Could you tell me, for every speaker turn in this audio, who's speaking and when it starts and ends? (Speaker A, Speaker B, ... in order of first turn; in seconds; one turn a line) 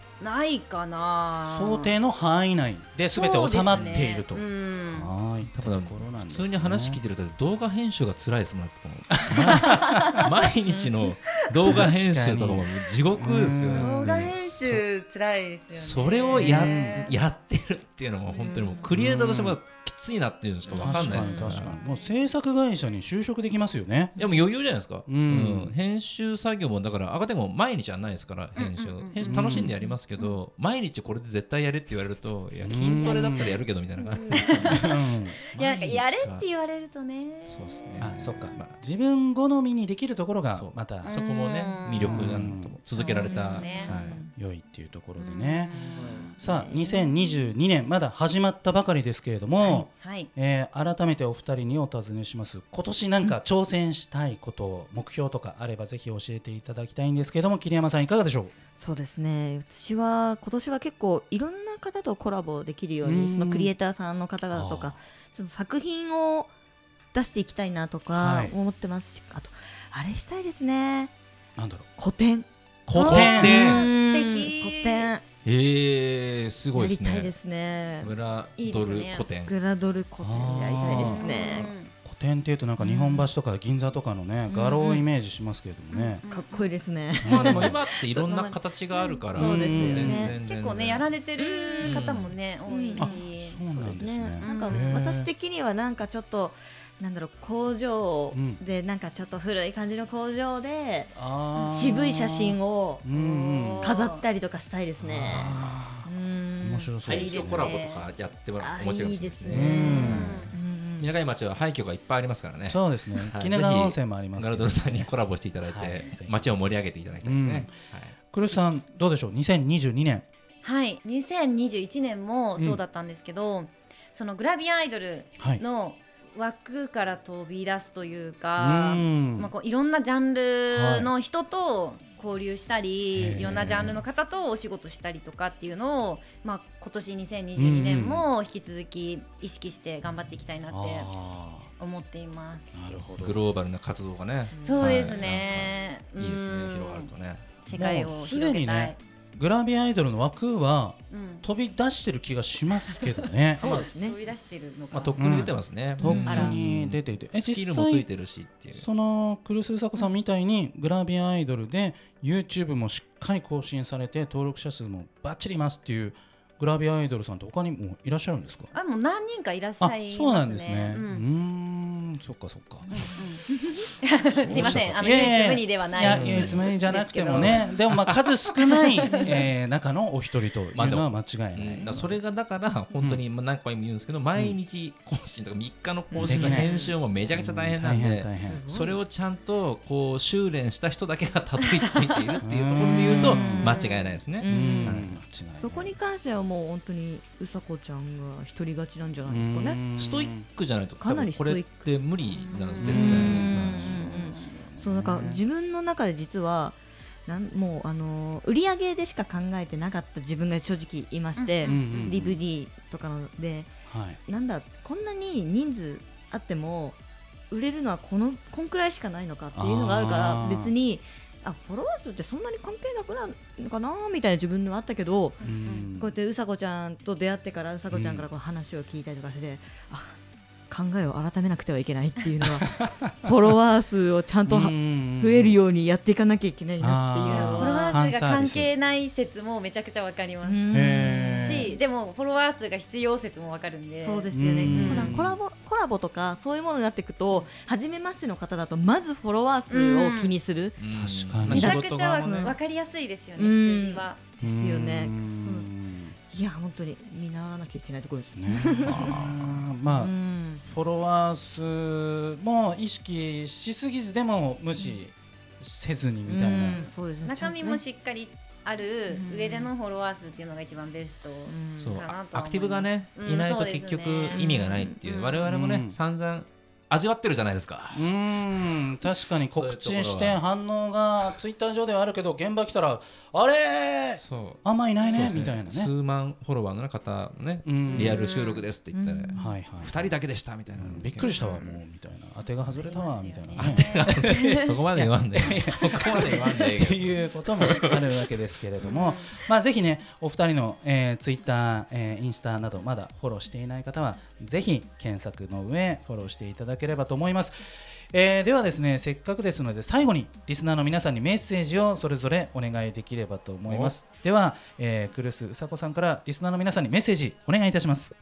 Speaker A: 0.2-1.9
Speaker B: 1.5-7.0
Speaker A: 3.0-5.1
Speaker C: 5.5-14.8
Speaker B: 9.2-10.3
Speaker A: 9.5-10.3
Speaker B: 11.6-14.4
Speaker A: 13.8-17.1
Speaker C: 15.7-21.8
Speaker B: 16.4-17.1
Speaker A: 18.4-18.8
Speaker B: 18.9-19.6
Speaker B: 20.7-24.1
Speaker D: 20.8-21.8
Speaker A: 20.8-21.5
Speaker C: 24.2-36.5
Speaker B: 25.1-25.8
Speaker A: 28.6-30.4
Speaker B: 29.2-29.8
Speaker B: 32.6-33.6
Speaker D: 34.1-34.5
Speaker A: 34.2-38.1
Speaker B: 34.6-35.4
Speaker C: 37.5-38.8
Speaker B: 38.0-41.1
Speaker C: 40.5-44.2
Speaker A: 41.0-42.3
Speaker B: 42.0-42.8
Speaker A: 42.9-44.0
Speaker D: 43.1-44.3
Speaker B: 44.4-58.5
Speaker A: 45.2-46.3
Speaker D: 45.7-47.1
Speaker A: 49.7-50.3
Speaker D: 58.8-66.5
Speaker B: 63.0-63.7
Speaker B: 64.5-65.0
Speaker D: 67.1-71.1
Speaker B: 68.1-68.5
Speaker B: 71.6-71.9
Speaker D: 72.0-72.5
Speaker B: 72.9-73.8
Speaker A: 73.0-75.1
Speaker D: 73.0-75.2
Speaker C: 73.0-73.8
Speaker C: 75.5-77.3
Speaker D: 76.7-78.1
Speaker C: 78.0-79.5
Speaker A: 78.6-79.3
Speaker D: 79.5-81.7
Speaker B: 80.2-86.2
Speaker A: 80.9-81.9
Speaker D: 82.8-83.3
Speaker D: 84.5-85.1
Speaker A: 85.9-86.7
Speaker D: 86.2-90.3
Speaker B: 87.2-87.8
Speaker C: 87.2-91.1
Speaker B: 89.3-90.3
Speaker A: 90.4-93.6
Speaker D: 91.4-92.0
Speaker C: 91.8-92.3
Speaker D: 92.7-101.2
Speaker B: 93.0-95.3
Speaker A: 94.4-95.1
Speaker B: 98.3-98.6
Speaker B: 101.2-103.9
Speaker A: 101.5-102.1
Speaker D: 101.7-103.0
Speaker A: 103.1-104.2
Speaker D: 103.8-106.9
Speaker B: 105.0-106.1
Speaker B: 106.6-107.7
Speaker C: 107.0-110.2
Speaker A: 107.1-108.0
Speaker D: 108.6-111.1
Speaker B: 109.5-110.5
Speaker A: 109.6-110.5
Speaker C: 111.0-118.2
Speaker B: 112.7-115.1
Speaker B: 115.7-116.5
Speaker B: 117.2-117.7
Speaker B: 118.3-120.2
Speaker A: 120.6-141.1
Speaker B: 128.6-129.5
Speaker B: 130.7-131.1
Speaker B: 133.2-134.0
Speaker B: 137.6-138.3
Speaker B: 140.7-141.7
Speaker A: 141.8-142.8
Speaker B: 142.7-143.4
Speaker C: 143.2-147.5
Speaker D: 144.5-145.2
Speaker A: 144.6-147.1
Speaker A: 147.6-149.0
Speaker B: 147.7-153.8
Speaker A: 151.1-151.4
Speaker D: 153.5-154.2
Speaker A: 153.5-155.5
Speaker C: 154.9-158.8
Speaker B: 155.2-158.1
Speaker A: 156.0-156.5
Speaker D: 156.1-156.5
Speaker B: 158.8-168.7
Speaker A: 168.7-171.2
Speaker B: 169.8-172.9
Speaker A: 172.9-173.4
Speaker D: 173.0-173.9
Speaker A: 174.0-177.7
Speaker C: 174.4-175.1
Speaker B: 174.4-182.2
Speaker C: 176.0-176.7
Speaker C: 177.3-178.2
Speaker A: 178.5-179.4
Speaker C: 180.7-195.2
Speaker D: 186.1-186.8
Speaker B: 186.2-186.7
Speaker A: 186.5-186.9
Speaker B: 187.3-188.6
Speaker D: 188.3-189.0
Speaker B: 192.4-193.8
Speaker D: 193.0-193.8
Speaker A: 193.4-194.2
Speaker D: 194.4-199.8
Speaker B: 194.4-196.0
Speaker B: 199.2-200.5
Speaker C: 199.9-204.2
Speaker D: 201.0-201.9
Speaker A: 202.3-203.2
Speaker B: 202.8-205.4
Speaker D: 202.8-217.0
Speaker A: 211.4-212.2
Speaker B: 211.6-212.4
Speaker B: 213.9-214.2
Speaker D: 217.5-238.0
Speaker B: 219.5-220.7
Speaker B: 225.4-226.1
Speaker A: 225.4-225.9
Speaker B: 227.9-228.3
Speaker B: 232.7-233.5
Speaker B: 234.5-235.5
Speaker B: 236.8-238.7
Speaker A: 237.2-240.6
Speaker D: 240.4-241.7
Speaker B: 240.7-241.7
Speaker A: 241.3-245.2
Speaker D: 243.9-250.8
Speaker B: 244.3-245.4
Speaker A: 249.7-250.3
Speaker C: 250.8-252.5
Speaker B: 250.9-251.7
Speaker D: 251.5-252.6
Speaker A: 251.5-254.2
Speaker D: 253.4-255.7
Speaker B: 254.4-256.2
Speaker D: 256.3-259.2
Speaker B: 258.3-260.1
Speaker C: 258.9-259.5
Speaker D: 259.8-260.6
Speaker B: 260.6-266.9
Speaker D: 266.2-267.8
Speaker A: 267.2-275.5
Speaker D: 269.1-269.7
Speaker D: 271.5-272.0
Speaker C: 271.8-278.1
Speaker D: 274.3-275.0
Speaker B: 275.4-276.0
Speaker B: 277.9-285.9
Speaker C: 279.5-280.4
Speaker C: 284.2-291.3
Speaker A: 285.0-285.3
Speaker B: 287.6-288.2
Speaker A: 287.9-288.7
Speaker D: 288.9-289.6
Speaker B: 289.3-290.1
Speaker B: 290.7-307.5
Speaker A: 291.2-291.8
Speaker A: 292.8-294.7
Speaker C: 293.6-298.0
Speaker A: 298.8-299.3
Speaker B: 308.1-318.1
Speaker C: 313.7-313.9